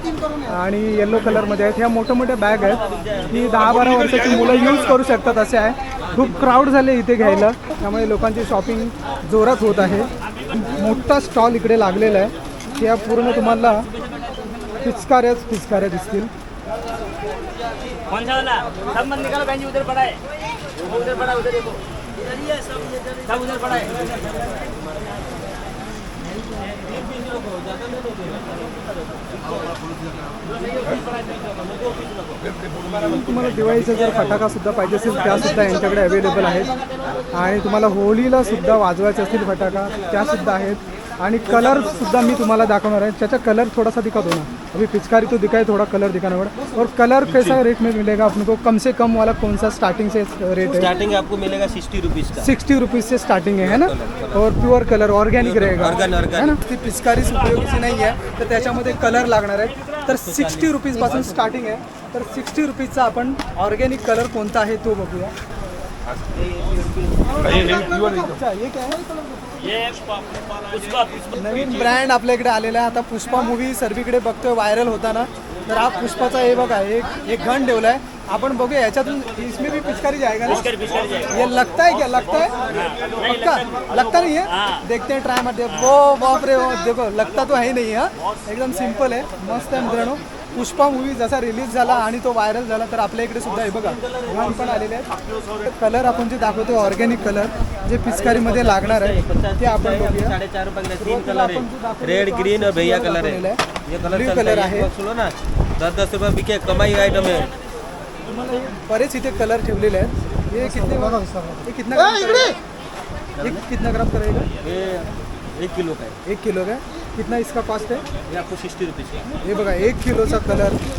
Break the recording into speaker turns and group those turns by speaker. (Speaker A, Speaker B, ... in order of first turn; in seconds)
Speaker A: 0.5-13.9, 14.8-16.3, 33.0-36.7, 37.3-50.9, 52.4-65.3, 67.4-69.0, 71.3-80.7, 81.3-82.6, 83.2-100.4, 101.0-104.9, 108.5-112.6, 113.4-114.5, 116.3-118.0, 119.4-120.8
Speaker B: 18.1-20.2, 20.9-21.8, 23.2-23.9, 69.6-70.0, 70.7-71.3, 80.6-81.3, 82.8-83.1
Speaker C: 33.6-34.4, 35.2-36.0, 47.3-47.6, 50.6-52.5, 53.6-54.4, 55.3-56.6, 60.1-61.4, 66.3-68.3, 98.0-107.5, 113.4-113.6, 114.6-116.2, 118.3-119.3